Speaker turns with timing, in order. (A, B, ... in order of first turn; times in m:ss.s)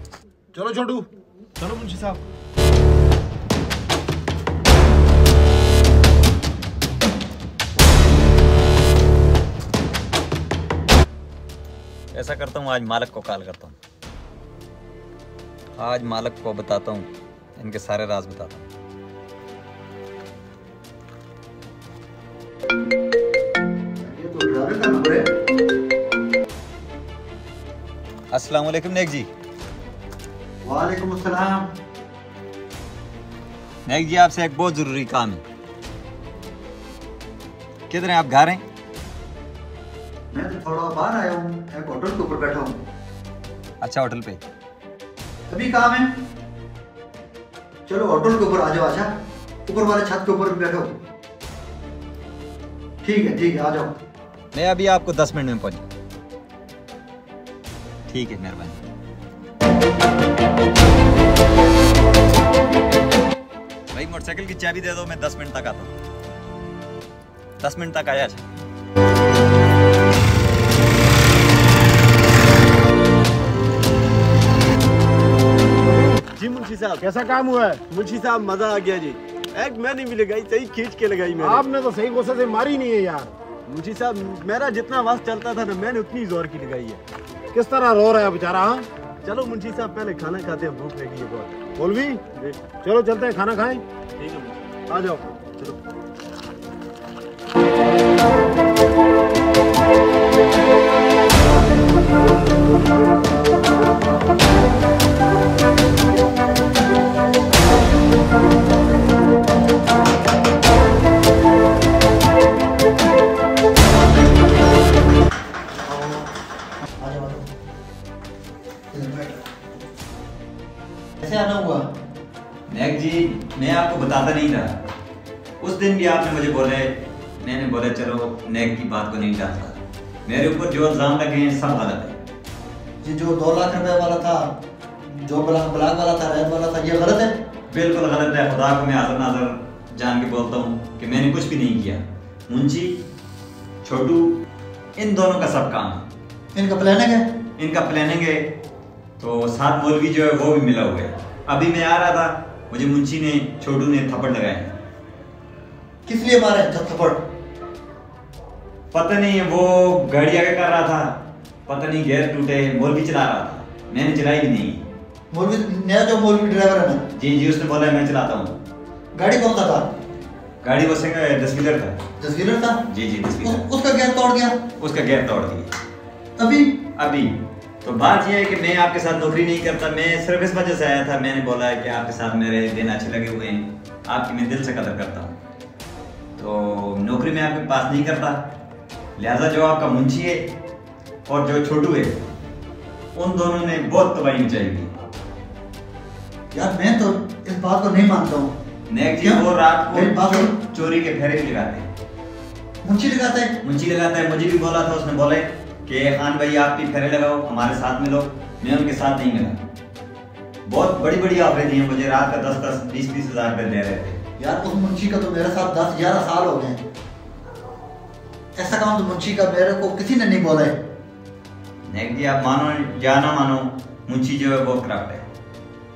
0:00.5-0:01.1 A
0:01.6-0:02.2 B
0:12.1-0:13.8 C
0:15.8-0:18.7 C
0:24.0-0:25.3 D
0:28.3-0:29.3 C
0:30.6-0:31.7 D
0:33.9-0:35.4 C
0:37.9-0:38.6 C
0:40.3-0:42.8 D
0:43.8-0:44.4 C
0:45.5-0:46.1 D
0:47.9-0:49.1 D
0:49.7-0:50.9 D
0:53.0-0:53.9 D
0:54.5-0:55.8 C
0:58.1-0:58.8 C
1:03.9-1:05.9 C
1:07.6-1:08.4 C
1:16.2-1:17.1 B
1:17.0-1:17.8 A
1:17.9-1:21.6 B
1:21.4-1:23.3 A
1:23.7-1:27.0 B
1:27.5-1:28.9 A
1:29.2-1:31.7 B
1:31.8-1:32.2 A
1:32.3-1:32.6 B
1:32.8-1:33.8 A
1:34.2-1:34.6 B
1:34.9-1:35.2 A
1:35.4-1:35.8 B
1:55.8-1:56.3 D
1:57.0-1:57.5 D
1:58.9-1:59.4 D
2:01.2-2:01.8 D
2:02.7-2:04.8 C
2:05.6-2:12.2 C
2:13.0-2:14.5 D
2:15.1-2:17.3 D
2:17.7-2:23.0 C
2:23.8-2:24.4 C
2:25.0-2:26.0 C
2:26.5-2:27.2 D
2:27.6-2:28.5 C
2:29.2-2:34.7 C
2:36.1-2:37.2 D
2:38.9-2:41.1 C
2:41.7-2:44.8 C
2:45.3-2:47.0 D
2:47.1-2:48.5 C
2:49.2-2:49.9 D
2:50.6-2:52.0 C
2:52.2-2:52.8 D
2:52.9-2:53.6 C
2:53.4-2:54.6 D
2:54.8-2:55.7 C
2:56.4-2:56.8 D
2:57.0-3:05.3 C
3:06.4-3:08.4 C
3:09.2-3:10.5 C
3:11.2-3:12.2 C
3:13.2-3:14.9 C
3:16.5-3:18.5 D
3:18.9-3:21.9 C
3:19.1-3:20.5 D
3:22.8-3:23.6 D
3:23.6-3:29.6 C
3:30.6-3:34.2 C
3:34.4-3:36.8 D
3:38.6-3:40.8 D
3:41.9-3:45.2 C